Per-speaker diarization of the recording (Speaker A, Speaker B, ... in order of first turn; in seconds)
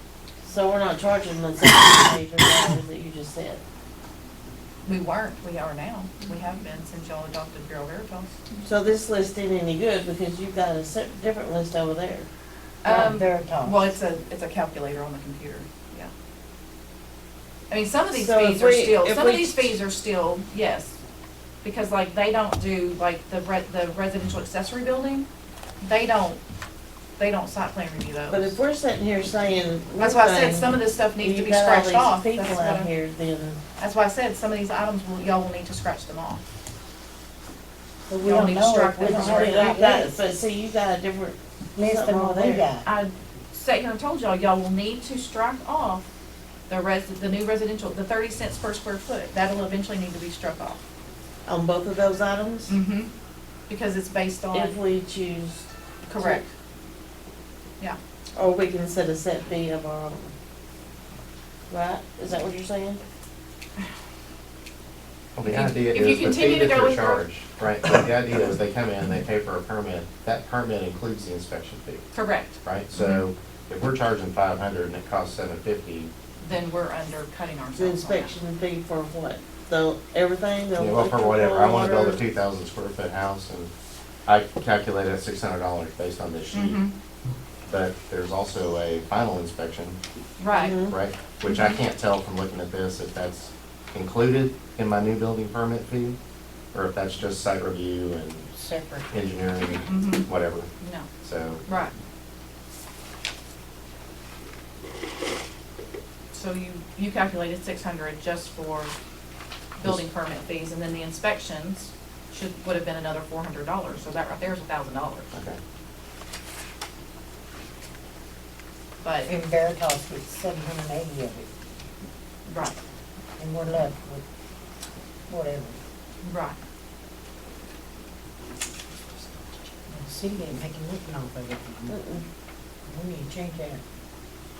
Speaker A: 0.4-3.6, 8.6-12.3, 18.1-19.7, 28.3-33.6, 39.0-42.7, 51.5-52.8, 54.5-56.4, 58.3-60.3, 61.7-63.0, 77.8-82.2, 90.5-91.0, 131.9-132.2
Speaker B: 4.8-8.4, 12.8-16.1, 17.7-21.0, 21.6-25.3, 25.8-26.4, 27.2-28.6, 30.0-32.9, 33.8-36.4, 38.2-39.9, 42.8-46.1, 46.7-50.8, 52.7-53.1, 53.7-54.8, 56.1-56.5, 65.4-67.2, 72.1-73.2, 76.4-78.3, 86.5-86.9, 90.4-90.8, 91.4-91.8, 99.6-100.3, 100.8-101.1, 101.7-101.9, 106.3-108.9, 109.8-115.3, 119.0-119.3, 122.5-122.8, 126.2-126.6
Speaker C: 12.8-14.0, 38.1-40.3, 41.7-42.9, 98.6-99.1, 119.2-121.5, 123.4-124.2, 125.3-125.8, 129.8-132.0, 132.9-133.8
Speaker D: 65.3-72.1, 72.6-76.1, 80.8-83.7, 84.2-86.8, 87.7-90.0, 90.8-96.2, 96.7-98.5, 99.1-100.7, 101.2-101.6, 115.3-115.6